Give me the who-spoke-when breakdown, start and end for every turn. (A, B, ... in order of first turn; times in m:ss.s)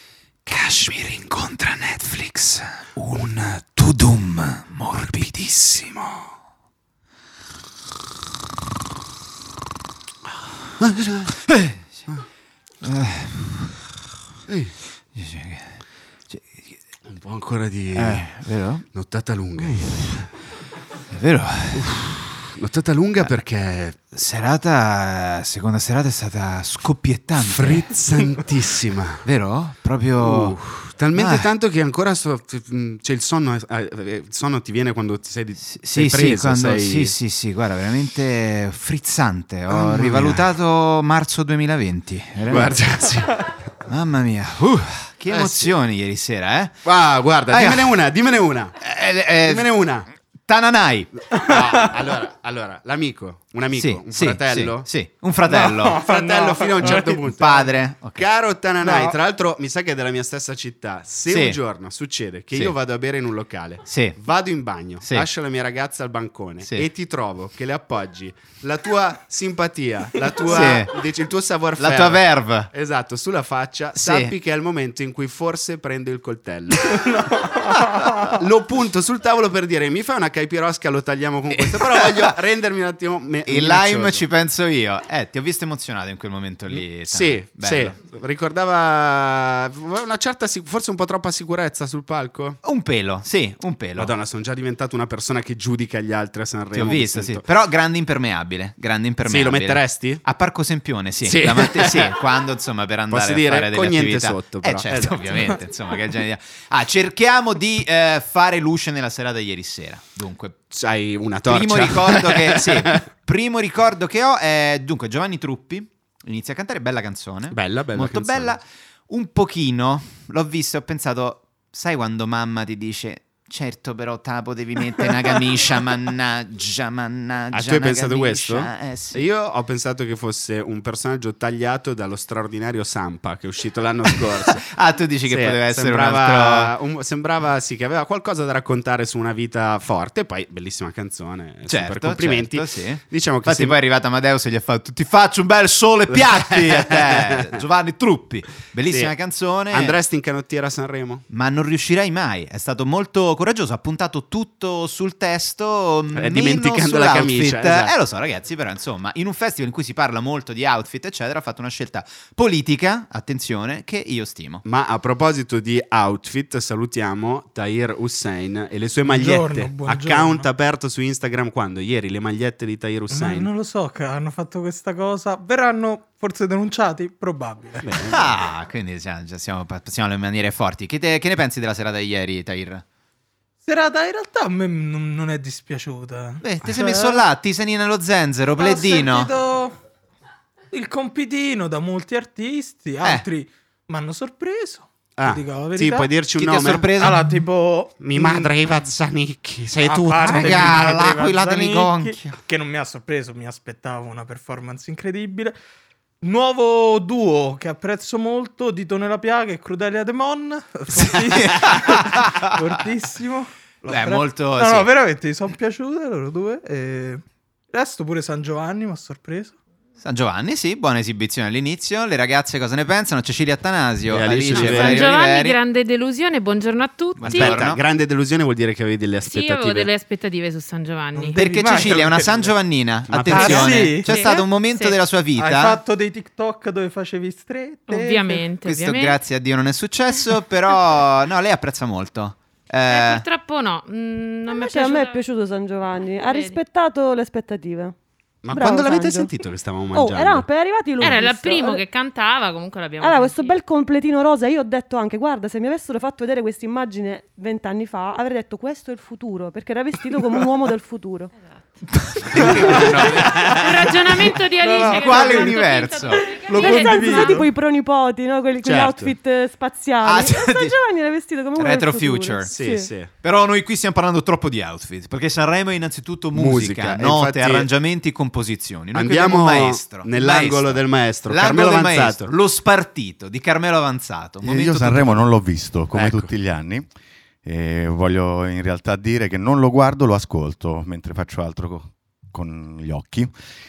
0:00.5-0:06.3 A
0:10.8-0:11.4 B
0:11.5-0:11.8 A
0:12.8-0:13.7 A
0:14.5-0:14.8 B
0:15.2-0:16.8 A
0:17.1-0:18.3 B
0:17.9-0:18.9 A
0:18.9-0:20.3 B
0:19.6-0:20.2 A
0:21.1-0:22.0 A
0:21.7-0:24.0 B
0:24.1-0:27.9 A
0:27.4-0:29.3 B
0:29.2-0:30.6 A
0:30.2-0:37.2 B
0:31.2-0:31.5 A
0:35.6-0:42.8 A
0:39.7-0:40.4 B
0:42.5-0:43.4 B
0:43.9-0:46.8 A
0:45.3-0:45.7 B
0:46.8-0:48.8 B
0:47.5-0:48.0 A
0:48.8-0:49.7 A
0:49.4-0:50.1 B
0:50.4-0:51.2 A
0:51.3-0:54.9 B
0:53.8-0:56.0 A
0:55.5-0:57.3 C
0:56.0-1:17.0 B
0:56.8-0:58.2 A
0:58.8-0:59.2 C
1:01.3-1:01.6 A
1:03.9-1:04.2 A
1:10.4-1:11.0 A
1:11.8-1:12.7 A
1:14.0-1:14.3 A
1:18.3-1:24.3 B
1:21.6-1:22.3 A
1:23.4-1:28.0 A
1:26.7-1:32.6 B
1:32.6-1:34.1 A
1:34.0-1:37.4 B
1:36.7-1:50.7 A
1:39.2-1:40.2 B
1:41.2-1:42.1 B
1:43.1-1:45.6 B
1:50.7-1:53.0 B
1:51.4-2:09.2 A
1:57.5-1:58.6 B
2:07.5-2:14.6 B
2:14.4-2:16.7 A
2:15.3-2:23.8 B
2:21.7-2:30.0 A
2:26.1-2:27.6 B
2:28.9-2:29.1 B
2:29.7-2:31.2 B
2:31.3-2:44.6 A
2:36.1-2:37.9 B
2:44.6-2:53.5 B
2:49.0-2:50.5 C
2:53.1-2:57.9 C
2:57.8-2:58.4 B
2:58.1-3:02.8 A
3:03.6-3:07.2 C
3:06.4-3:09.3 A
3:08.6-3:09.8 C
3:10.7-3:16.1 C
3:15.2-3:16.9 B
3:16.4-3:17.3 A
3:17.0-3:18.5 C
3:18.0-3:20.8 B
3:19.8-3:25.6 C
3:19.9-3:22.4 A
3:26.2-3:39.6 C
3:30.9-3:32.7 A
3:33.9-3:34.9 A
3:40.0-3:45.6 A
3:44.1-3:45.1 B
3:44.6-3:47.7 D
3:47.2-3:47.8 A
3:47.2-3:49.9 B
3:49.2-3:51.4 D
3:51.1-3:52.5 C
3:51.3-3:55.8 A
3:53.1-3:53.9 B
3:53.3-3:54.2 C
3:54.0-3:55.0 D
3:55.4-3:58.5 C
3:57.9-3:59.2 D
3:58.6-4:03.2 A
4:02.8-4:05.2 D
4:04.5-4:07.9 E
4:06.2-4:06.6 D
4:08.4-4:10.4 B
4:08.5-4:09.3 E
4:09.9-4:11.8 E
4:11.0-4:13.6 D
4:13.0-4:21.3 E
4:21.9-4:26.4 A
4:22.3-4:27.4 D
4:22.4-4:23.5 B
4:22.6-4:23.0 C
4:24.6-4:27.5 C
4:26.6-4:32.9 E
4:28.6-4:29.1 B
4:30.0-4:30.8 A
4:31.6-4:32.5 A
4:32.5-4:33.1 B
4:33.1-4:45.2 A
4:36.3-4:37.7 B
4:38.9-4:42.3 B
4:44.4-4:46.9 F
4:45.9-4:46.3 B
4:47.4-4:53.3 F